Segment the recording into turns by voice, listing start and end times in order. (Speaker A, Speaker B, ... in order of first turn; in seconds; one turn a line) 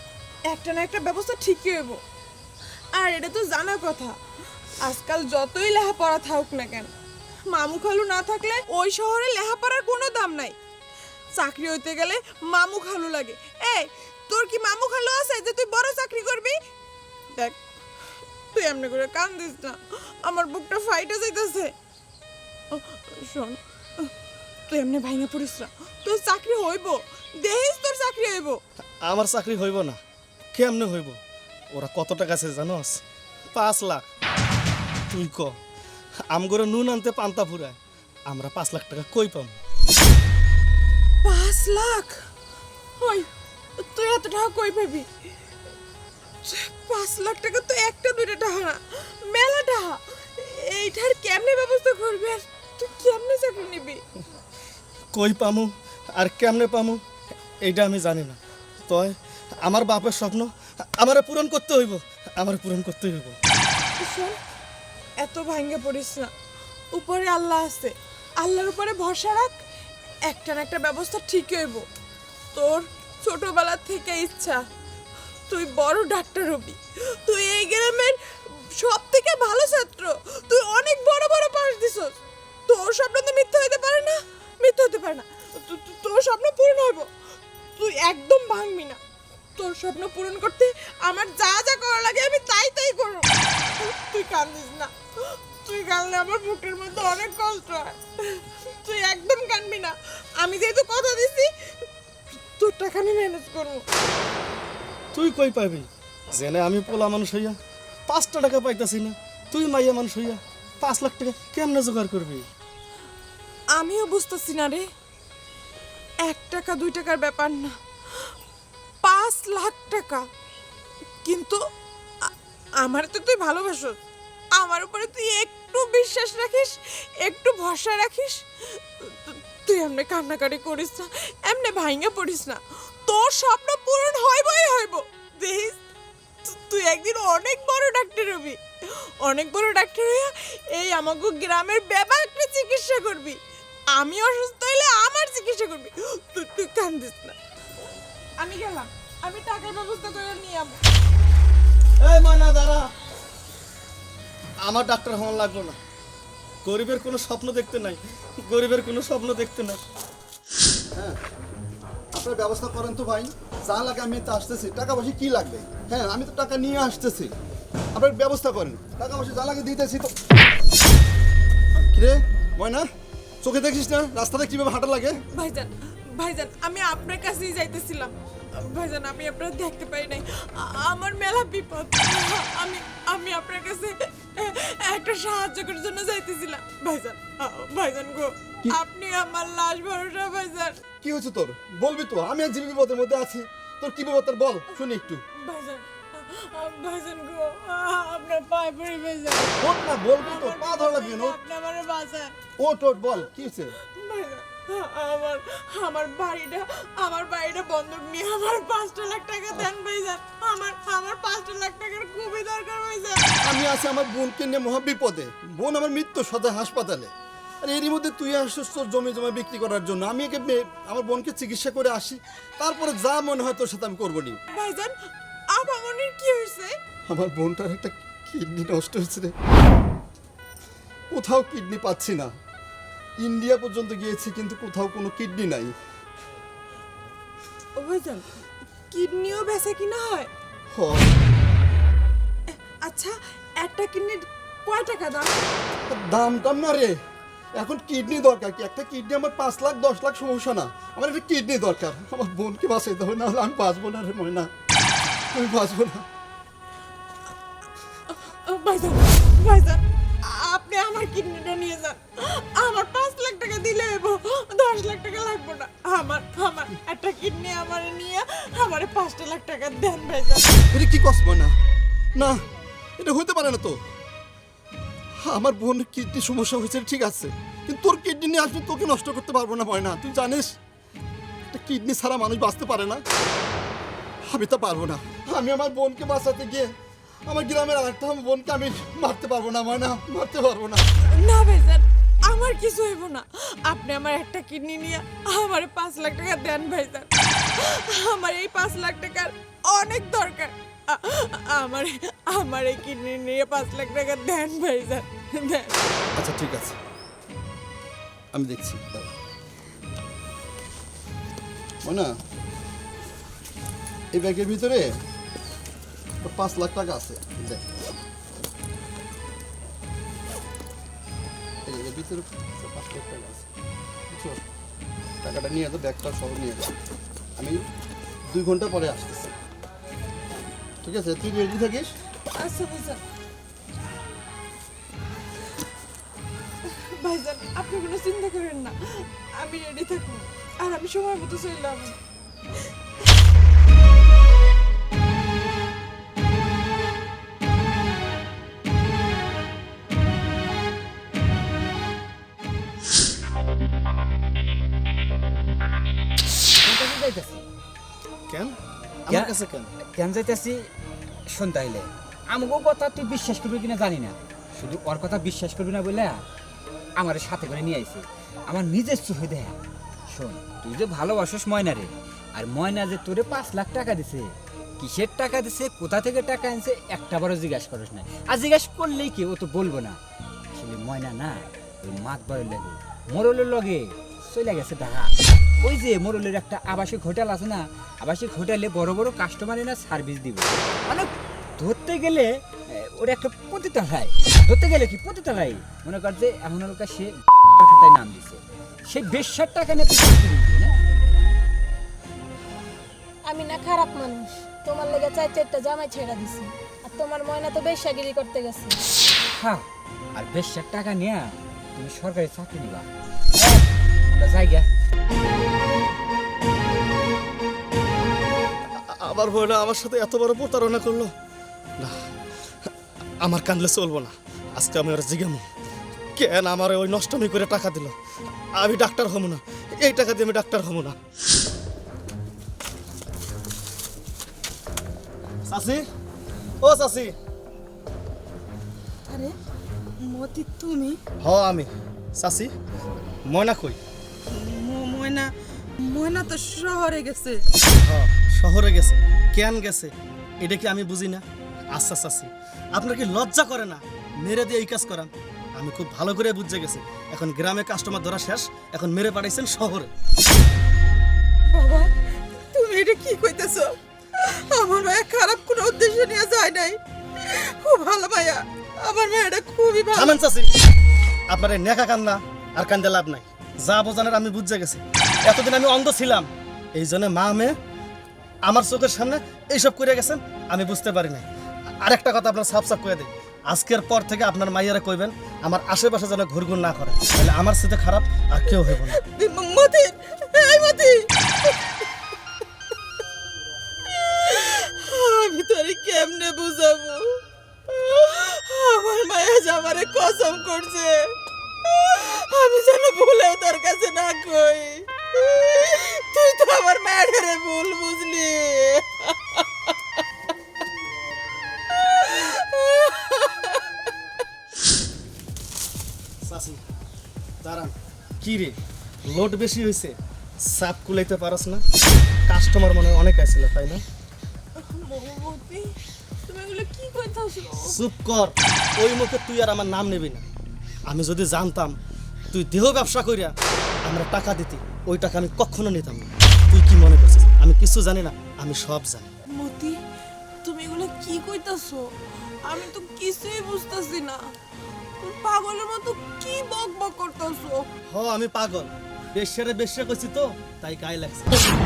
Speaker A: 0.5-2.0
Speaker A: 2.9-4.2
Speaker A: 4.8-6.9
Speaker A: 7.5-10.6
Speaker A: 11.3-16.6
Speaker A: 18.5-21.7
Speaker A: 22.7-24.1
Speaker A: 24.7-28.6
Speaker B: 29.0-30.0
Speaker B: 30.5-31.2
Speaker B: 31.7-33.0
Speaker B: 33.5-34.0
Speaker B: 35.1-35.5
Speaker B: 36.3-37.8
Speaker B: 38.3-39.6
Speaker A: 41.2-42.2
Speaker A: 43.0-45.1
Speaker A: 46.4-54.0
Speaker B: 55.1-57.0
Speaker B: 57.6-63.4
Speaker A: 64.0-64.4
Speaker A: 65.2-66.3
Speaker A: 66.9-69.5
Speaker A: 70.2-71.8
Speaker A: 72.5-74.6
Speaker A: 75.5-78.2
Speaker A: 78.7-82.1
Speaker A: 82.7-87.1
Speaker A: 87.8-89.0
Speaker A: 89.5-101.5
Speaker A: 102.3-103.8
Speaker B: 105.1-107.5
Speaker B: 108.1-112.4
Speaker A: 113.8-114.8
Speaker A: 116.2-117.7
Speaker A: 119.0-120.2
Speaker A: 121.2-121.6
Speaker A: 122.8-124.0
Speaker A: 124.5-135.8
Speaker A: 136.4-138.6
Speaker A: 139.2-143.4
Speaker A: 143.9-147.3
Speaker A: 148.4-150.8
Speaker B: 152.0-152.9
Speaker B: 154.6-155.8
Speaker B: 156.6-159.8
Speaker C: 160.9-161.2
Speaker C: 162.1-167.3
Speaker C: 167.9-170.1
Speaker C: 171.9-172.9
Speaker C: 173.4-175.2
Speaker A: 175.3-190.8
Speaker C: 191.0-195.2
Speaker A: 195.4-199.6
Speaker C: 199.6-201.3
Speaker A: 200.2-202.3
Speaker C: 202.6-203.7
Speaker A: 203.8-213.2
Speaker C: 213.4-217.1
Speaker C: 217.6-224.4
Speaker A: 224.5-224.9
Speaker A: 225.5-226.8
Speaker C: 227.1-229.3
Speaker C: 231.1-232.3
Speaker C: 233.2-235.7
Speaker A: 237.8-238.3
Speaker A: 238.9-240.3
Speaker C: 240.7-241.1
Speaker A: 242.5-245.4
Speaker C: 245.9-246.9
Speaker C: 247.6-254.5
Speaker C: 255.3-256.0
Speaker A: 258.1-270.5
Speaker C: 270.7-271.5
Speaker C: 272.1-272.4
Speaker C: 273.0-273.8
Speaker C: 275.2-280.5
Speaker C: 281.5-283.0
Speaker C: 284.3-286.7
Speaker C: 287.3-290.8
Speaker A: 291.0-305.7
Speaker C: 306.1-306.8
Speaker C: 308.3-309.1
Speaker C: 311.8-312.1
Speaker C: 314.1-314.9
Speaker C: 316.2-317.6
Speaker C: 321.6-323.4
Speaker C: 324.1-324.4
Speaker C: 325.2-326.7
Speaker C: 327.4-327.6
Speaker C: 328.3-329.3
Speaker C: 330.8-331.9
Speaker A: 332.3-333.0
Speaker A: 336.6-342.0
Speaker D: 356.6-357.4
Speaker B: 358.3-358.5
Speaker B: 359.1-359.7
Speaker D: 359.1-359.3
Speaker D: 359.9-360.7
Speaker D: 361.3-366.2
Speaker D: 367.0-369.6
Speaker D: 370.1-374.3
Speaker D: 374.8-380.0
Speaker D: 380.5-400.7
Speaker E: 403.2-408.8
Speaker D: 409.4-414.6
Speaker B: 418.8-421.1
Speaker B: 423.2-425.4
Speaker B: 426.1-427.9
Speaker B: 428.6-430.9
Speaker B: 435.5-435.8
Speaker B: 436.6-437.1
Speaker A: 440.1-440.9
Speaker B: 441.2-442.5
Speaker B: 443.2-443.8
Speaker A: 444.3-445.3
Speaker A: 445.8-447.4
Speaker B: 447.8-459.9
Speaker A: 461.6-461.9
Speaker F: 462.7-463.6
Speaker F: 464.5-466.8
Speaker F: 467.6-469.9
Speaker B: 469.9-470.5
Speaker B: 471.3-477.5
Speaker B: 478.4-481.2
Speaker B: 481.8-489.0
Speaker F: 489.1-491.0
Speaker F: 493.9-497.0
Speaker F: 497.7-501.0
Speaker F: 501.6-509.1
Speaker F: 512.0-513.5
Speaker B: 516.2-516.6
Speaker B: 517.4-518.5
Speaker B: 519.1-521.6
Speaker B: 522.3-523.8
Speaker A: 524.6-525.7
Speaker A: 526.3-527.8
Speaker B: 527.6-530.2
Speaker B: 530.9-531.8
Speaker B: 532.3-539.1
Speaker A: 539.3-539.8
Speaker A: 540.4-541.9
Speaker A: 542.4-544.2
Speaker A: 545.0-547.6
Speaker B: 547.9-551.4